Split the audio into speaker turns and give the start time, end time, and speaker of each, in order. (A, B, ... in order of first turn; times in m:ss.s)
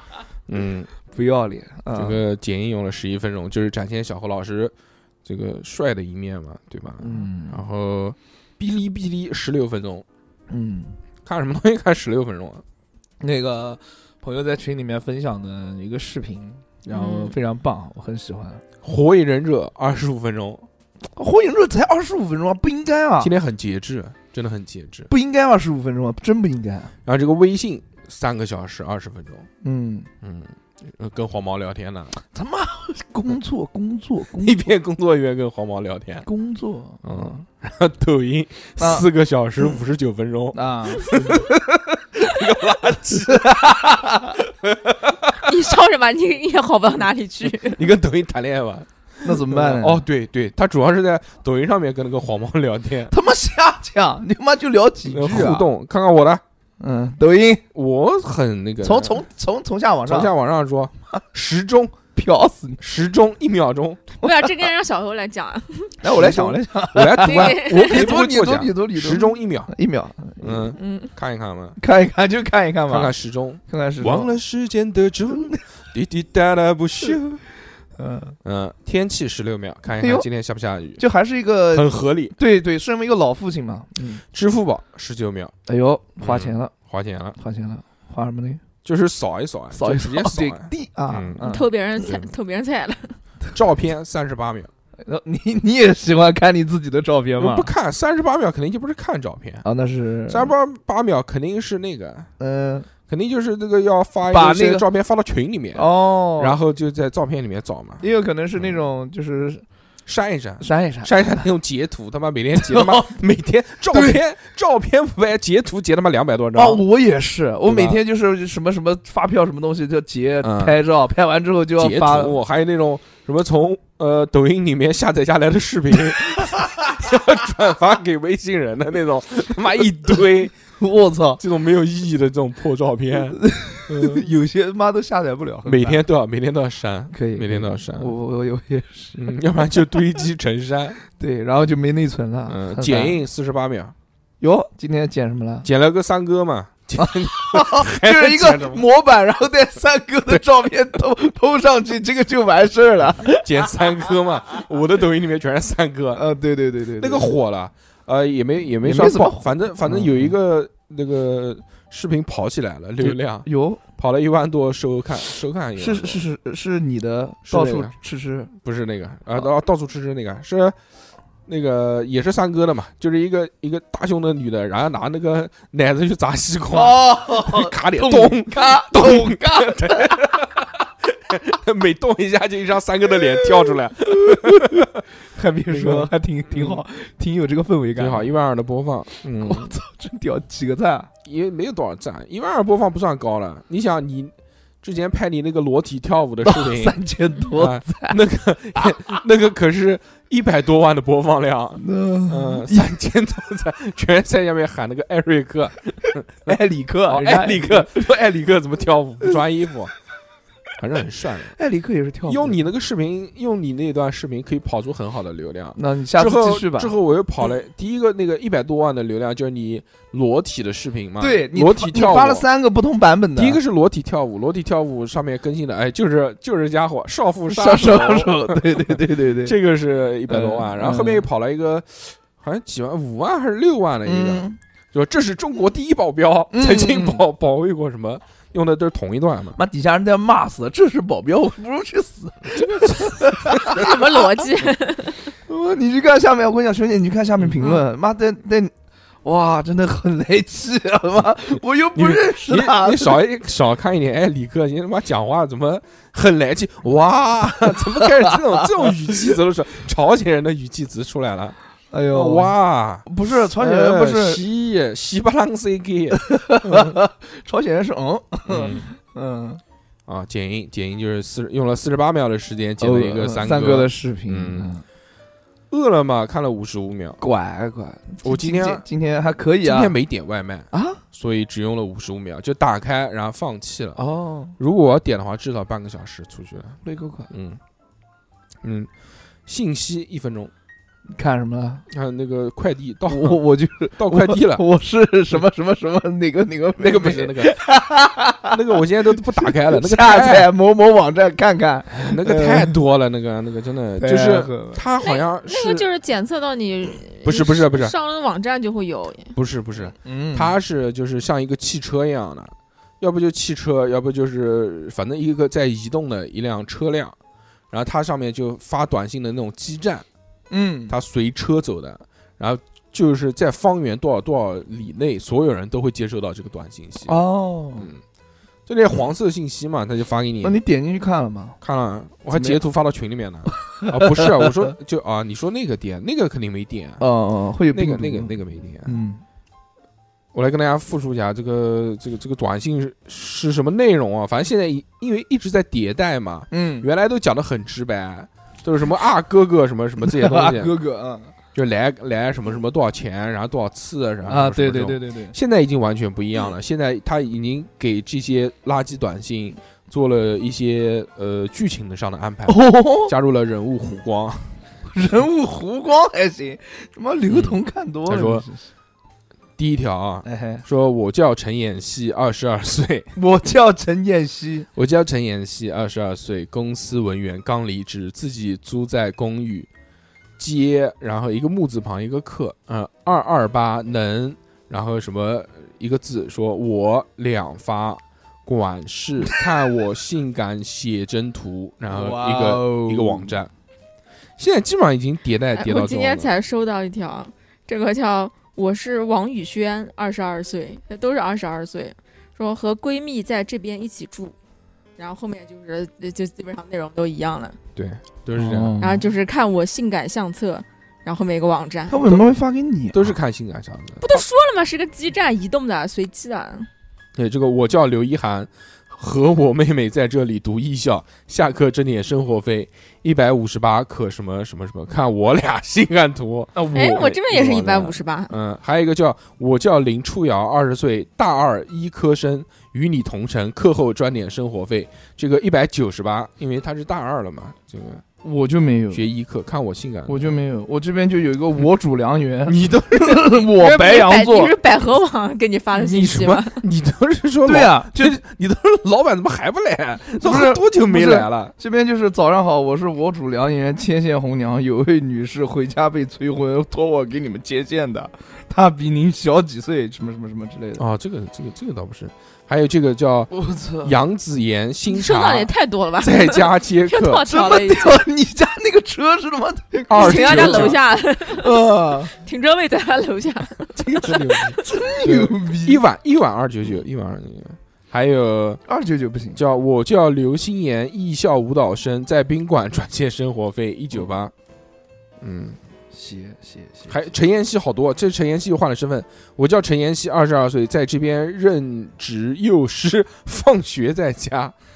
0:00.5-0:00.9 A
0:01.1-0:02.2 B
0:02.0-0:04.7 A
0:05.2-0:10.0 A
0:07.0-0:07.6 B
0:10.5-0:11.0 B
0:11.2-0:12.6 A
0:13.2-0:18.6 B
0:16.9-0:17.3 C
0:18.8-0:20.7 A
0:21.2-0:23.3 B
0:23.2-0:25.1 A
0:25.1-0:26.9 B
0:27.0-0:29.5 A
0:29.6-0:30.1 B
0:30.2-0:32.2 A
0:32.2-0:34.7 B
0:34.4-0:36.3 A
0:36.2-0:37.4 B
0:37.0-0:41.6 A
0:38.8-0:39.1 B
0:40.5-0:41.9 B
0:42.2-0:43.8 A
0:43.1-0:44.4 B
0:44.6-0:45.4 A
0:45.4-0:47.8 C
0:47.7-0:53.1 A
0:49.2-0:50.0 B
0:53.1-0:55.7 B
0:55.1-0:56.4 A
0:56.8-0:57.6 B
0:57.7-0:59.2 A
0:58.8-1:00.3 B
1:00.1-1:02.0 A
1:02.1-1:02.8 B
1:02.8-1:04.0 A
1:04.2-1:06.0 C
1:06.0-1:10.8 B
1:06.0-1:09.7 A
1:07.2-1:08.1 C
1:10.4-1:11.8 A
1:10.8-1:11.1 C
1:11.8-1:13.1 B
1:12.9-1:17.4 A
1:13.7-1:14.3 B
1:15.3-1:15.6 B
1:18.0-1:18.4 B
1:18.4-1:21.0 A
1:20.0-1:20.3 B
1:21.0-1:24.2 B
1:21.7-1:22.4 A
1:24.3-1:25.5 A
1:25.7-1:26.7 B
1:26.2-1:27.4 A
1:27.4-1:28.6 B
1:28.8-1:31.5 A
1:29.7-1:31.7 B
1:31.4-1:33.2 C
1:33.5-1:34.7 A
1:35.0-1:37.7 B
1:37.4-1:39.6 A
1:39.6-1:40.5 B
1:40.3-1:42.3 A
1:42.4-1:42.9 B
1:43.1-1:48.0 A
1:44.3-1:44.9 B
1:45.8-1:46.6 B
1:48.0-1:49.6 B
1:50.1-1:56.8 A
1:50.6-1:51.4 B
1:52.6-1:53.2 B
1:53.9-1:54.2 B
1:56.6-2:02.4 B
1:57.7-1:58.0 A
2:00.4-2:00.8 A
2:01.8-2:10.5 A
2:10.8-2:11.4 B
2:11.4-2:14.3 A
2:13.4-2:16.0 B
2:15.6-2:18.1 A
2:17.1-2:19.3 B
2:19.2-2:21.0 A
2:21.2-2:23.2 B
2:22.5-2:23.9 A
2:24.4-2:25.7 B
2:25.6-2:28.8 A
2:27.0-2:33.5 B
2:33.4-2:36.2 A
2:36.2-2:37.4 B
2:37.0-2:46.2 A
2:38.8-2:40.3 B
2:43.0-2:43.8 B
2:45.8-2:48.5 B
2:47.5-2:47.9 A
2:48.6-2:50.8 A
2:51.5-3:05.0 A
2:56.7-3:00.3 B
3:03.4-3:08.3 B
3:05.7-3:06.8 A
3:08.0-3:09.8 A
3:09.4-3:11.1 B
3:11.2-3:17.0 A
3:16.4-3:18.2 B
3:17.6-3:26.5 A
3:18.8-3:19.1 B
3:21.8-3:22.9 B
3:26.5-3:28.1 B
3:27.1-3:29.9 A
3:30.8-3:31.6 A
3:31.6-3:32.6 B
3:32.3-3:42.4 A
3:35.8-3:36.9 B
3:41.2-3:43.6 B
3:43.4-3:59.6 A
3:47.5-3:49.6 B
3:50.3-3:51.3 B
3:54.0-3:54.6 B
3:56.5-3:57.2 B
3:59.6-4:04.0 B
4:02.5-4:03.9 A
4:03.6-4:05.3 C
4:05.5-4:08.7 B
4:07.4-4:07.8 A
4:09.2-4:13.2 B
4:12.0-4:21.6 A
4:21.9-4:22.5 B
4:22.1-4:27.0 A
4:23.1-4:24.4 B
4:26.2-4:29.6 B
4:28.5-4:28.9 A
4:30.1-4:34.7 A
4:32.8-4:34.8 B
4:35.7-4:37.2 A
4:37.2-4:40.0 B
4:38.2-4:38.8 A
4:39.6-4:44.0 A
4:40.7-4:41.0 B
4:44.0-4:44.6 B
4:44.6-4:46.8 A
4:46.8-4:47.3 B
4:47.3-4:47.6 A
4:48.6-4:48.9 A
4:49.5-4:50.5 A
4:51.1-4:51.9 B
4:51.9-4:53.4 A
4:53.1-4:58.6 B
4:54.0-4:54.6 A
4:56.8-4:57.6 A
4:58.5-5:00.5 A
4:59.2-5:02.8 B
5:02.0-5:05.9 A
5:04.0-5:04.8 B
5:05.0-5:09.3 C
5:07.2-5:07.9 A
5:09.4-5:17.2 A
5:10.0-5:10.6 B
5:17.7-5:20.0 A
5:20.5-5:21.0 B
5:20.9-5:27.2 A
5:27.1-5:27.9 B
5:28.7-5:30.6 A
5:30.4-5:31.6 B
5:31.6-5:37.0 A
5:32.3-5:32.6 B
5:33.8-5:34.5 B
5:37.0-5:39.2 B
5:37.7-5:39.0 A
5:40.3-5:50.7 A
5:46.5-5:46.9 B
5:50.0-5:51.3 B
5:51.5-6:04.5 A
5:54.3-5:55.4 B
6:02.5-6:03.1 B
6:04.9-6:08.6 B
6:07.3-6:08.4 A
6:09.6-6:13.1 A
6:10.2-6:10.6 B
6:13.2-6:14.7 B
6:14.8-6:19.7 A
6:20.4-6:33.5 A
6:31.9-6:33.4 B
6:34.4-6:36.3 A
6:35.6-6:44.4 C
6:45.0-6:47.6 C
6:47.8-6:48.8 A
6:48.4-6:49.0 B
6:48.8-6:52.2 C
6:51.9-6:53.2 B
6:52.9-6:54.2 A
6:54.0-6:56.7 C
6:57.2-7:18.0 A
7:06.6-7:08.3 C
7:18.2-7:19.1 B
7:18.9-7:20.3 A
7:20.1-7:24.5 B
7:22.5-7:23.4 A
7:23.6-7:26.6 C
7:25.8-7:31.5 A
7:27.4-7:28.2 B
7:30.2-7:40.8 B
7:40.8-7:47.2 A
7:43.3-7:44.0 B
7:44.9-7:48.0 C
7:47.3-7:50.8 B
7:49.9-7:50.8 A
7:50.0-7:51.6 C
7:51.3-7:52.1 B
7:52.1-7:54.5 C
7:53.8-7:58.6 A
7:54.6-7:55.8 B
7:58.7-7:59.4 B
7:59.4-8:04.3 A
8:05.2-8:05.6 A
8:05.9-8:07.0 B
8:06.9-8:14.5 A